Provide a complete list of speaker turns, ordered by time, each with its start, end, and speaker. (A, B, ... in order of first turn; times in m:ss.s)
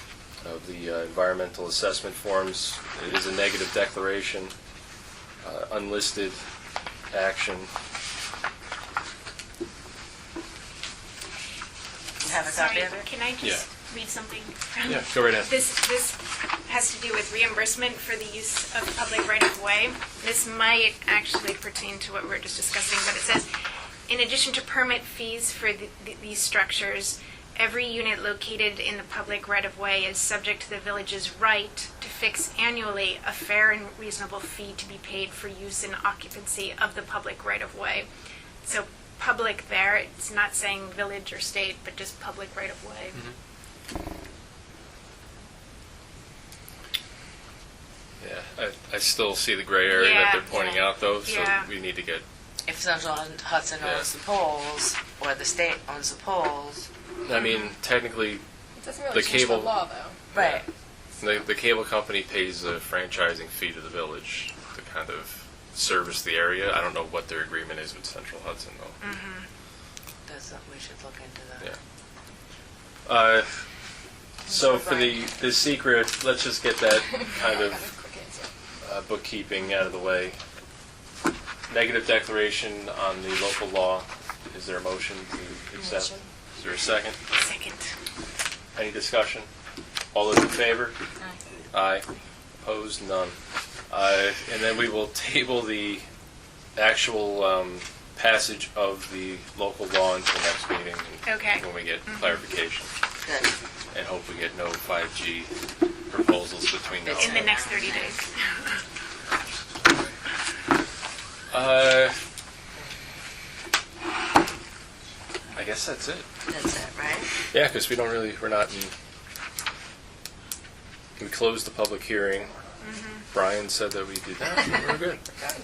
0:00.4-0:04.5 A
0:05.4-0:06.4 A
0:07.1-0:07.7 A
0:12.2-0:13.1 B
0:12.3-0:23.5 C
0:14.8-0:15.6 A
0:24.1-0:38.1 C
0:38.6-0:43.2 C
0:48.2-0:52.2 A
0:49.8-0:51.7 C
0:52.7-0:56.9 B
0:53.8-0:54.1 A
0:57.2-0:58.4 A
0:58.8-1:00.2 D
0:59.1-0:59.8 A
1:00.3-1:00.6 A
1:00.3-1:00.7 B
1:01.2-1:09.0 A
1:09.0-1:09.5 C
1:10.3-1:11.7 B
1:13.1-1:13.6 A
1:14.5-1:17.9 A
1:17.0-1:18.5 D
1:18.8-1:20.4 A
1:21.7-1:27.2 A
1:25.8-1:26.2 D
1:27.3-1:27.9 C
1:28.8-1:29.5 A
1:30.1-1:31.0 A
1:31.7-1:32.1 A
1:32.6-1:33.4 A
1:33.9-1:36.1 A
1:36.8-1:42.9 A
1:41.2-1:42.4 C
1:43.2-1:43.5 B
1:43.9-1:45.5 A
1:46.1-1:47.6 A
1:47.0-1:48.2 B
1:47.1-1:48.8 C
1:51.5-1:52.2 A
1:55.5-1:56.3 A
1:56.5-1:57.3 B
1:57.5-1:58.9 A
2:01.2-2:02.5 A
2:02.8-2:03.3 C
2:03.3-2:05.2 A